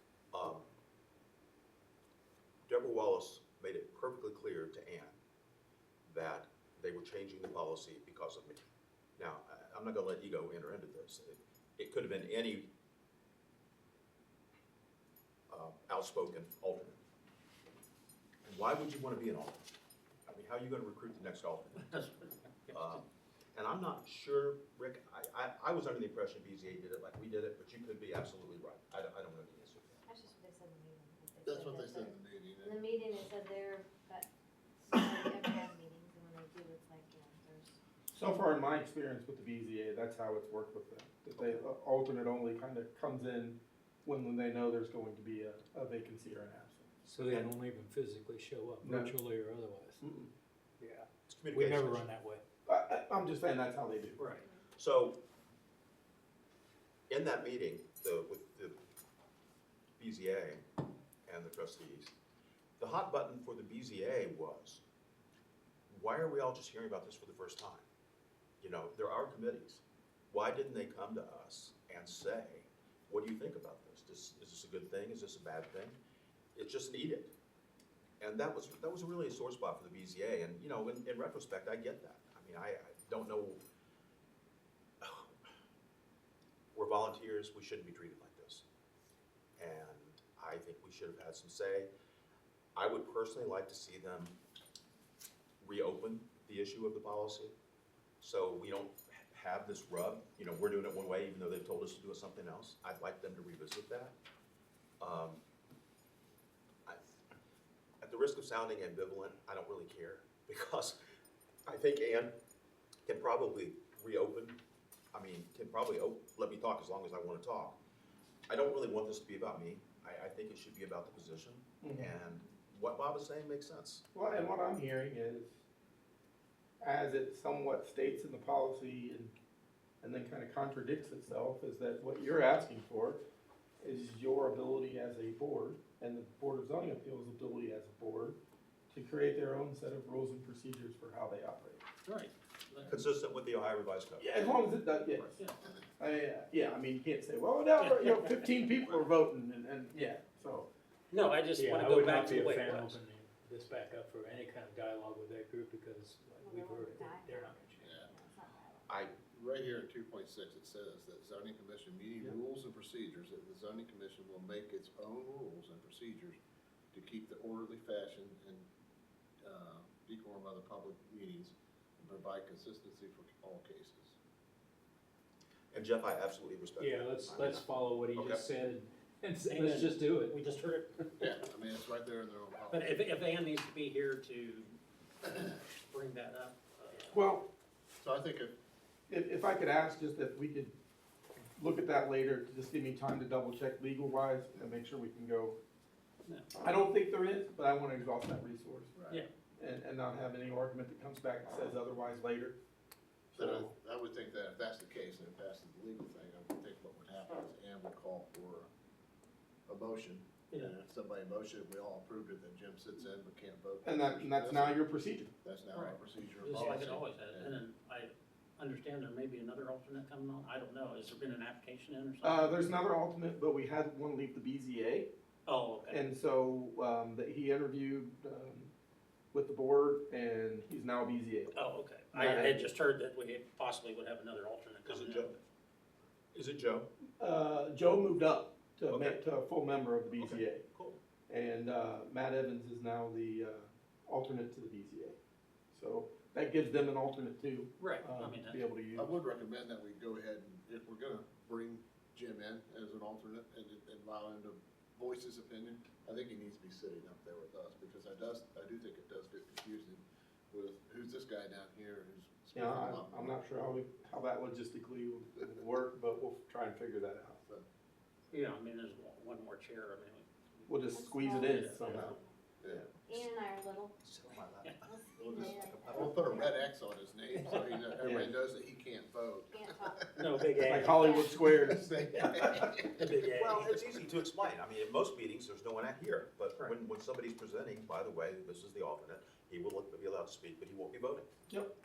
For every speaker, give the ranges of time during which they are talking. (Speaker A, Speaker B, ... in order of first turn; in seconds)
Speaker A: 0.3-0.7, 2.7-5.2, 6.1-8.6, 9.2-12.7, 15.5-17.0, 18.4-19.7, 20.3-21.9, 22.7-30.1, 41.4-41.6, 47.2-47.5, 51.3-52.0, 54.8-55.2, 57.1-58.8, 60.0-60.6, 61.3-62.1, 62.8-64.8, 65.9-67.9, 68.6-76.0, 76.5-77.3, 78.2-83.6, 85.0-85.3, 86.7-88.6, 89.6-91.9, 92.8-94.4, 95.6-97.5, 98.2-104.2, 105.0-105.4, 108.0-111.0, 111.7-112.3, 113.1-114.6, 115.1-117.8, 118.5-124.0, 142.9-144.5, 158.9-159.2, 175.7-178.4, 234.8-235.4, 236.3-236.9, 238.9-239.2, 240.1-241.0, 274.0-276.4, 283.3-291.3
Speaker B: 21.8-23.0, 54.2-54.5, 142.1-143.0, 147.8-148.5, 151.1-153.0, 179.5-181.2, 182.7-187.2, 215.7-222.8, 225.5-226.0, 231.5-235.4, 247.8-248.6, 268.3-272.2, 277.4-277.9, 280.2-281.1, 282.6-283.8
Speaker C: 30.1-34.3, 34.8-37.8, 156.4-158.9, 179.6-179.9, 270.9-272.3, 273.1-273.9, 274.9-276.5, 279.5-280.1, 280.9-281.3
Speaker D: 31.4-32.9, 157.8-158.1, 159.3-166.4, 166.9-168.7, 169.4-174.2, 181.2-183.0, 188.0-188.6, 198.9-199.2, 203.3-208.7, 209.7-214.8, 215.4-217.6, 248.9-263.4, 272.6-272.9, 275.2-280.3, 281.3-283.1
Speaker E: 38.1-46.9, 48.8-49.2, 50.0-50.3, 52.7-54.2, 121.8-122.2, 124.1-125.5, 126.8-129.3, 130.0-133.2, 133.8-138.4, 138.9-141.8, 144.2-145.4, 146.0-150.7, 187.1-187.5, 189.1-190.8, 191.6-195.6, 196.6-198.9, 199.6-202.6, 203.3-203.7, 213.8-215.3, 222.2-225.1, 225.9-228.7, 229.3-231.6, 232.1-232.7, 237.2-240.7, 241.3-245.2, 245.7-249.2, 262.6-267.4, 270.7-272.2, 278.0-278.3, 280.7-282.7
Speaker F: 47.1-50.0, 50.8-52.4, 151.6-158.0, 176.8-180.3